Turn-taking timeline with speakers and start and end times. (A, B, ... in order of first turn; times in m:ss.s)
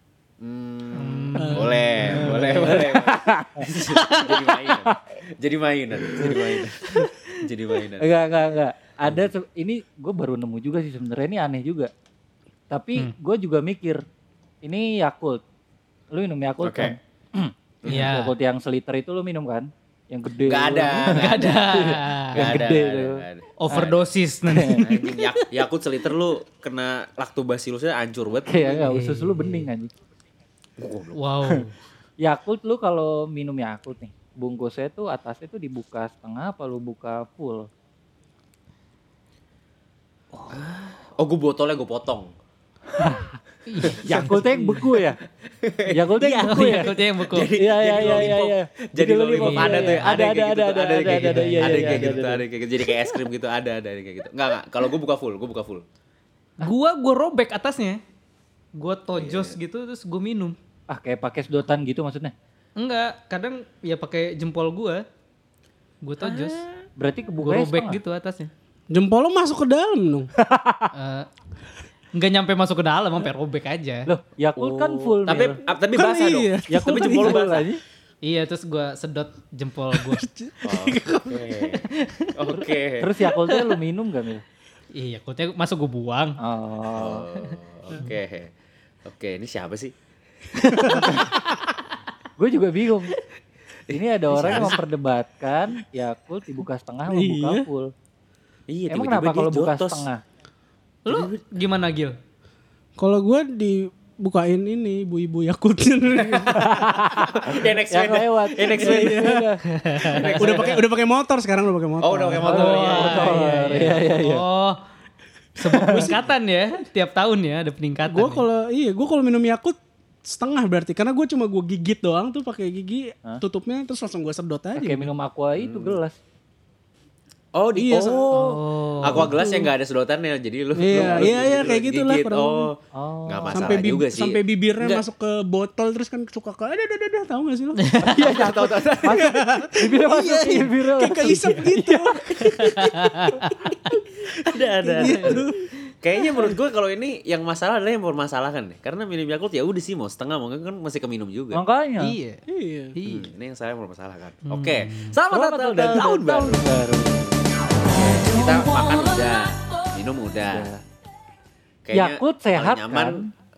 0:00.4-0:08.1 A
0:00.9-0:02.9 B
0:01.4-0:01.8 C
0:02.2-0:03.7 D
0:03.9-0:04.6 B
0:06.1-0:06.4 D
0:08.0-0:11.9 D
0:09.0-0:09.3 A
0:12.7-0:14.0 D
0:14.6-0:15.4 D
0:16.1-0:23.9 D
0:16.6-0:17.0 A
0:17.8-0:18.1 A
0:17.8-0:18.3 B
0:20.4-0:24.0 A
0:21.0-0:22.6 B
0:23.6-0:25.5 B
0:24.5-0:24.9 D
0:24.8-0:28.9 A
0:28.4-0:29.9 D
0:28.9-0:29.7 B
0:30.8-0:31.6 A
0:31.1-0:31.7 B
0:32.2-0:37.7 D
0:40.5-0:42.3 A
0:42.9-0:43.4 D
0:43.7-0:44.7 B
0:43.8-0:44.8 A
0:44.0-0:45.2 D
0:45.5-0:55.8 A
0:45.9-0:47.0 D
0:46.2-0:48.3 B
0:47.5-0:52.4 D
0:49.4-0:50.2 B
0:51.0-0:52.2 B
0:56.6-0:58.0 B
0:58.7-1:00.6 B
0:59.2-0:59.6 A
1:00.9-1:02.3 D
1:02.8-1:05.0 B
1:06.0-1:06.6 B
1:06.2-1:06.6 A
1:07.0-1:08.0 D
1:07.4-1:08.5 B
1:08.9-1:10.3 C
1:10.4-1:10.9 D
1:10.9-1:11.3 B
1:12.1-1:14.1 B
1:14.1-1:15.6 D
1:14.6-1:17.7 A
1:15.9-1:17.4 C
1:16.7-1:17.8 D
1:18.2-1:20.2 B
1:20.0-1:21.5 C
1:20.6-1:21.8 A
1:21.8-1:22.3 B
1:22.3-1:23.1 A
1:22.5-1:24.4 D
1:24.9-1:26.4 B
1:26.4-1:27.3 D
1:26.9-1:28.5 A
1:29.0-1:29.9 A
1:30.6-1:31.3 B
1:30.8-1:31.0 A
1:30.9-1:31.3 D
1:32.4-1:33.1 D
1:33.9-1:34.8 A
1:33.9-1:37.9 D
1:37.1-1:37.6 C
1:38.7-1:40.1 A
1:38.9-1:40.2 D
1:41.0-1:42.2 B
1:41.1-1:41.4 A
1:43.0-1:46.8 C
1:46.2-1:49.2 A
1:46.5-1:49.6 D
1:48.7-1:49.4 C
1:49.7-1:50.5 B
1:50.0-1:50.8 A
1:50.3-1:52.6 C
1:52.0-1:53.9 A
1:52.4-1:54.4 D
1:52.4-1:54.8 B
1:55.6-1:58.4 B
1:55.7-1:56.1 D
1:55.7-1:56.2 C
1:58.1-2:05.1 C
2:04.8-2:06.2 D
2:05.6-2:06.0 A
2:07.5-2:15.0 A
2:07.7-2:08.3 C
2:08.3-2:09.4 B
2:09.0-2:09.7 C
2:10.8-2:12.7 C
2:10.9-2:11.3 D
2:12.9-2:13.8 D
2:13.5-2:17.8 C
2:17.8-2:18.2 B
2:18.0-2:22.2 D
2:18.2-2:19.3 A
2:19.0-2:23.6 C
2:22.6-2:23.6 B
2:24.3-2:25.7 C
2:24.3-2:25.5 A
2:25.0-2:25.4 B
2:26.0-2:31.6 A
2:31.5-2:32.2 D
2:32.0-2:32.4 B
2:32.5-2:32.9 C
2:33.0-2:33.3 B
2:33.0-2:36.7 A
2:34.5-2:35.2 B
2:35.3-2:38.2 D
2:37.8-2:40.7 A
2:40.4-2:40.8 D
2:41.8-2:43.2 A
2:41.9-2:43.3 D